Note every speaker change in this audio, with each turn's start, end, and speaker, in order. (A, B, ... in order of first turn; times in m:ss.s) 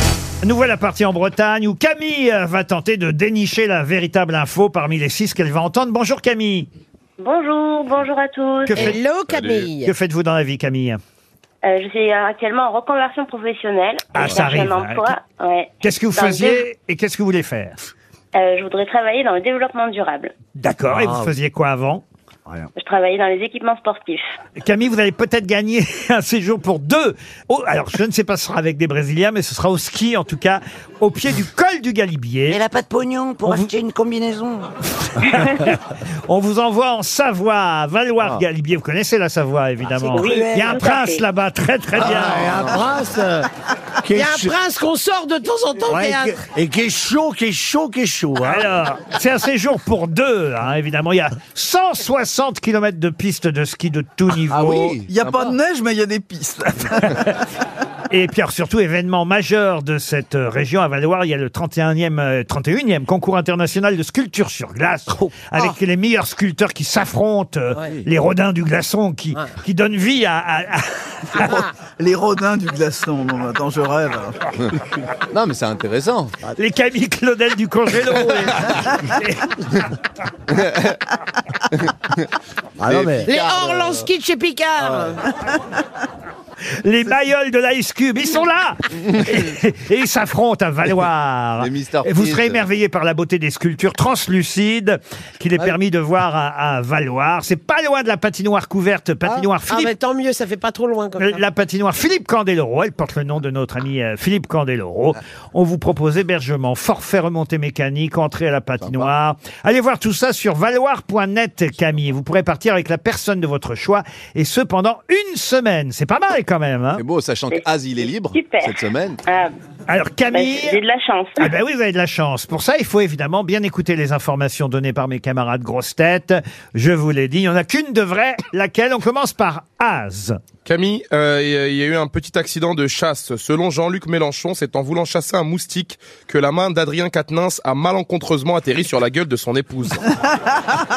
0:00.4-0:06.7 A
0:07.2-0:09.0 B
0:08.7-0:09.0 A
0:08.7-0:09.9 C
0:09.3-0:09.7 D
0:09.8-0:11.0 A
0:11.6-0:16.6 B
0:14.1-0:15.1 A
0:15.8-0:17.8 A
0:18.3-0:20.3 B
0:20.6-0:22.0 A
0:20.9-0:21.3 E
0:22.8-0:24.2 B
0:24.6-0:32.6 A
0:32.5-0:34.7 F
0:33.4-0:33.7 A
0:35.2-0:42.7 A
0:39.9-0:40.7 F
0:40.1-0:41.2 B
0:42.0-0:43.5 E
0:44.0-0:44.6 E
0:44.1-0:46.4 C
0:45.8-0:48.7 E
0:48.4-0:55.0 A
0:54.5-0:55.5 G
0:55.0-0:57.3 H
0:58.1-1:11.7 A
1:12.0-1:14.5 H
1:15.3-1:16.4 G
1:16.5-1:19.8 A
1:20.5-1:21.0 G
1:22.8-1:23.3 E
1:22.9-1:24.0 G
1:23.2-1:25.3 C
1:26.8-1:40.0 A
1:31.6-1:32.6 G
1:39.2-1:41.4 C
1:41.2-1:57.0 A
1:48.8-1:49.1 G
1:57.0-1:59.2 G
1:58.3-1:59.5 B
1:59.9-2:00.8 A
2:00.3-2:01.5 B
2:01.4-2:10.4 A
2:10.7-2:20.1 D